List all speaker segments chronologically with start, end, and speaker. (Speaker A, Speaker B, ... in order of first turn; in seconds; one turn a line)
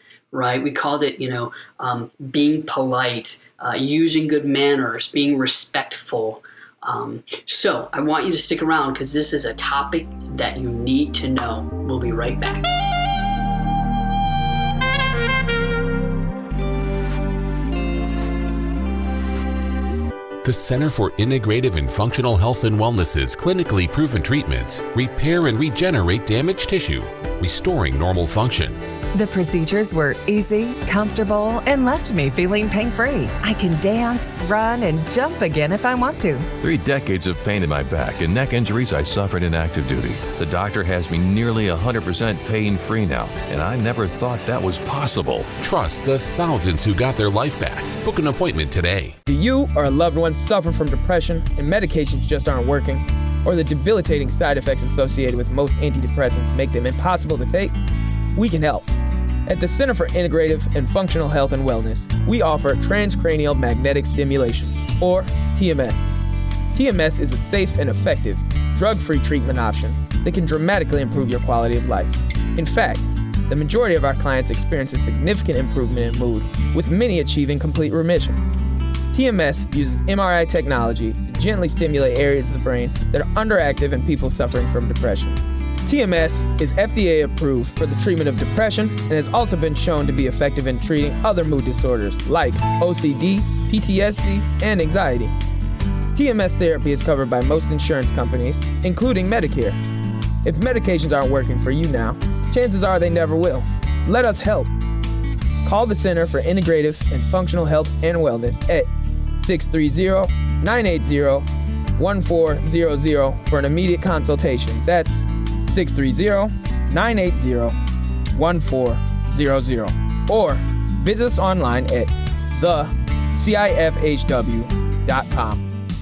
Speaker A: 0.3-12.7
Speaker B: 20.4-28.8
Speaker C: 29.1-36.5
Speaker D: 36.6-45.5
Speaker B: 45.6-49.2
Speaker E: 49.3-57.8
Speaker E: 58.4-58.9
Speaker E: 59.5-66.0
Speaker E: 66.7-78.4
Speaker E: 79.1-95.3
Speaker E: 96.2-99.8
Speaker E: 100.4-104.7
Speaker E: 105.6-117.8
Speaker E: 118.3-125.6